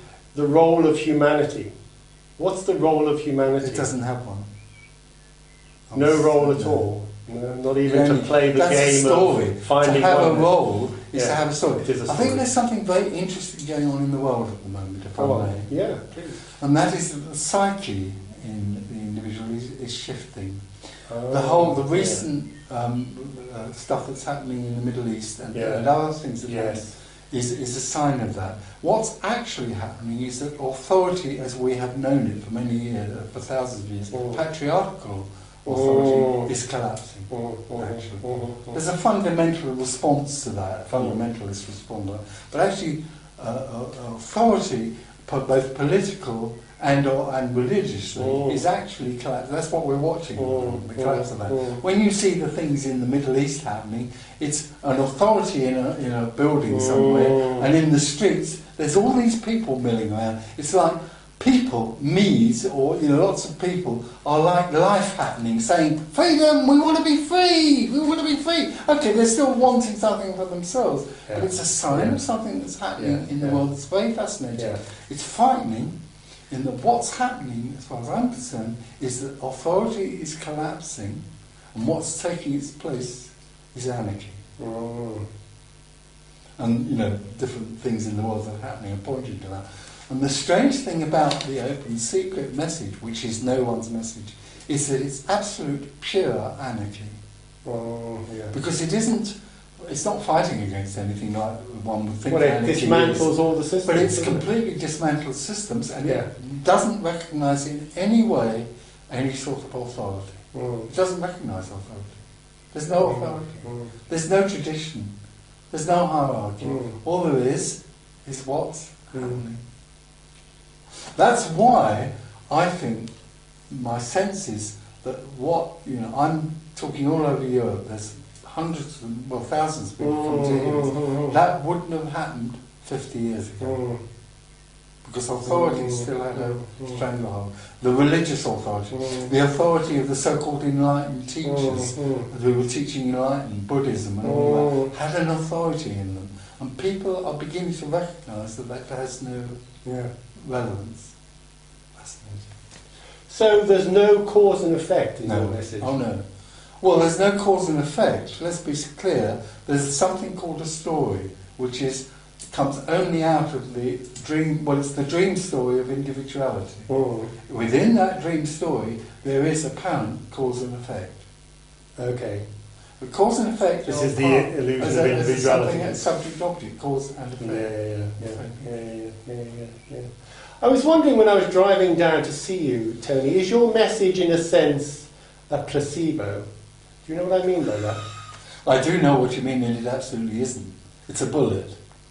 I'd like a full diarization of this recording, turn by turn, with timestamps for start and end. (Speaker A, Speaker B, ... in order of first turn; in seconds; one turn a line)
Speaker A: 0.3-1.7
Speaker A: 2.4-3.9
Speaker B: 3.6-4.5
Speaker B: 5.9-6.8
Speaker A: 5.9-12.5
Speaker B: 7.8-15.8
Speaker A: 15.2-16.5
Speaker B: 16.5-20.7
Speaker A: 21.1-22.2
Speaker B: 21.3-76.0
Speaker A: 25.5-25.9
Speaker A: 26.4-26.9
Speaker A: 34.1-34.4
Speaker A: 35.7-36.5
Speaker A: 37.3-38.8
Speaker A: 48.2-48.6
Speaker A: 50.4-51.8
Speaker A: 56.7-57.7
Speaker A: 71.3-72.2
Speaker A: 73.0-73.6
Speaker B: 76.5-84.4
Speaker A: 84.6-85.3
Speaker B: 86.6-97.2
Speaker A: 97.7-98.5
Speaker B: 98.5-103.3
Speaker A: 102.3-104.5
Speaker B: 103.8-112.2
Speaker A: 110.5-110.9
Speaker B: 112.7-115.1
Speaker A: 113.0-113.9
Speaker B: 115.7-119.6
Speaker A: 116.6-117.0
Speaker B: 121.1-123.1
Speaker B: 123.7-133.8
Speaker A: 130.0-131.3
Speaker A: 133.6-134.0
Speaker B: 135.0-149.6
Speaker A: 135.4-137.0
Speaker A: 138.9-139.3
Speaker A: 141.4-142.3
Speaker A: 144.2-144.9
Speaker A: 149.8-150.1
Speaker B: 150.4-151.1
Speaker B: 152.0-152.5
Speaker A: 153.3-156.0
Speaker B: 155.3-156.2
Speaker B: 156.8-166.9
Speaker A: 166.9-167.3
Speaker B: 167.5-171.2
Speaker A: 172.0-172.5
Speaker B: 173.0-178.7
Speaker A: 173.8-176.1
Speaker A: 177.4-186.4
Speaker A: 187.1-188.0
Speaker B: 188.7-191.8